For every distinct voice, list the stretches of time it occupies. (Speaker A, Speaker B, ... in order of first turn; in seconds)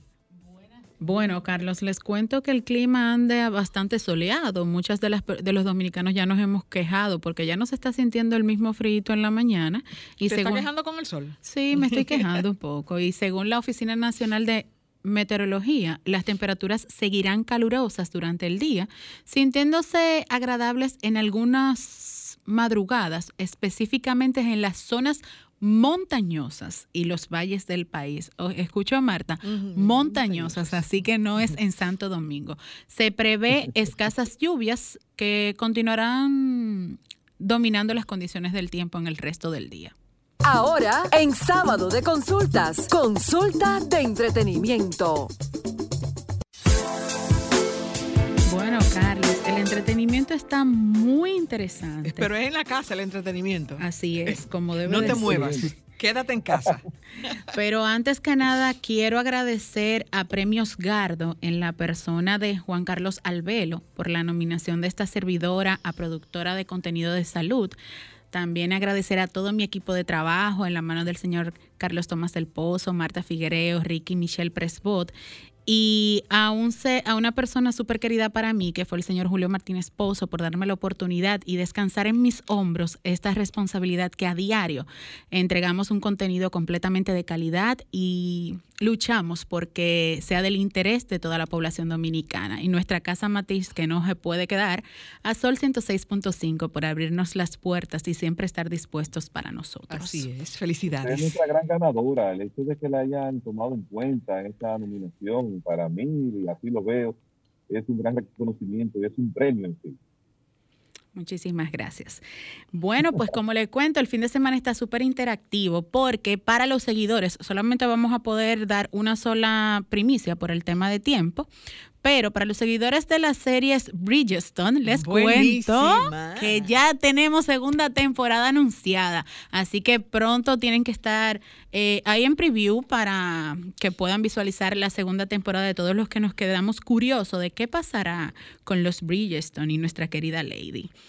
Speaker A: 1.0-10.7, 11.4-39.9, 48.5-52.3, 53.8-55.7, 57.5-67.8, 68.3-75.1, 75.7-100.3, 111.1-121.5, 122.0-140.9
Speaker B: 10.3-12.4, 29.4-30.9, 52.0-56.9, 99.9-101.4, 124.9-126.7
Speaker C: 40.4-45.3
Speaker D: 55.0-55.7, 100.9-107.2, 107.7-110.0